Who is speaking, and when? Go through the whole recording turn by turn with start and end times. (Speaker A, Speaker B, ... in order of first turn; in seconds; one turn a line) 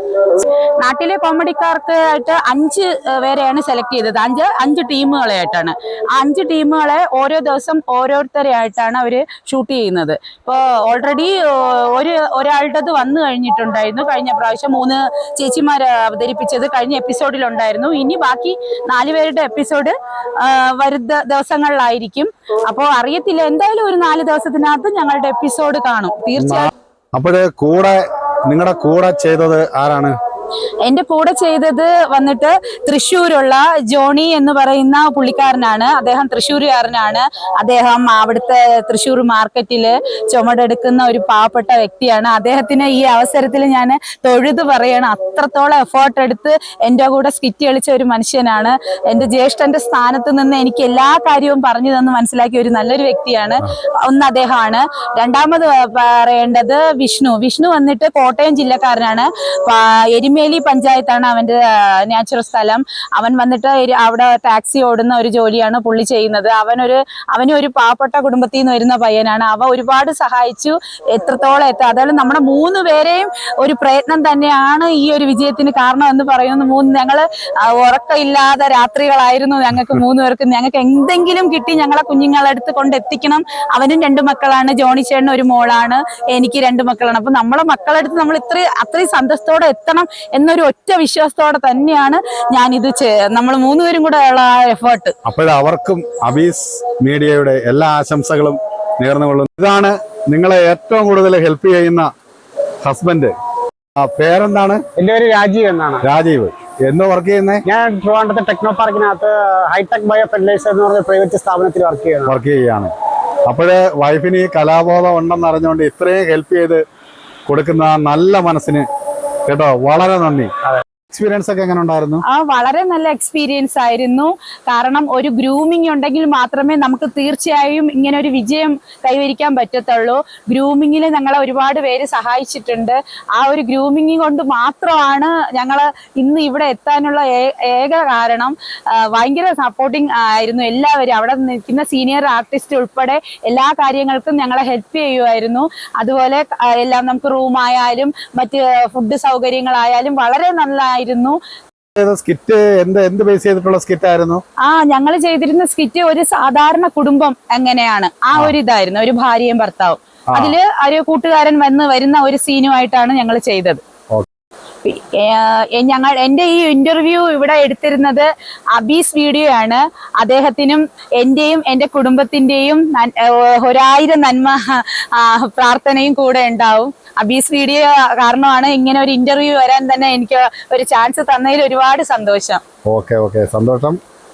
Speaker A: 0.4-26.7
Speaker B: 26.4-30.1
Speaker A: 30.8-95.1
Speaker B: 95.2-102.1
Speaker B: 102.8-103.3
Speaker B: 104.0-104.8
Speaker C: 105.0-106.0
Speaker B: 106.0-107.6
Speaker C: 107.7-112.3
Speaker B: 112.2-112.9
Speaker B: 113.5-116.8
Speaker B: 117.5-118.8
Speaker B: 119.5-120.5
Speaker B: 121.1-122.2
Speaker A: 122.3-151.4
Speaker B: 151.9-154.4
Speaker A: 154.6-163.8
Speaker B: 160.3-160.6
Speaker A: 164.8-182.6
Speaker B: 182.9-184.0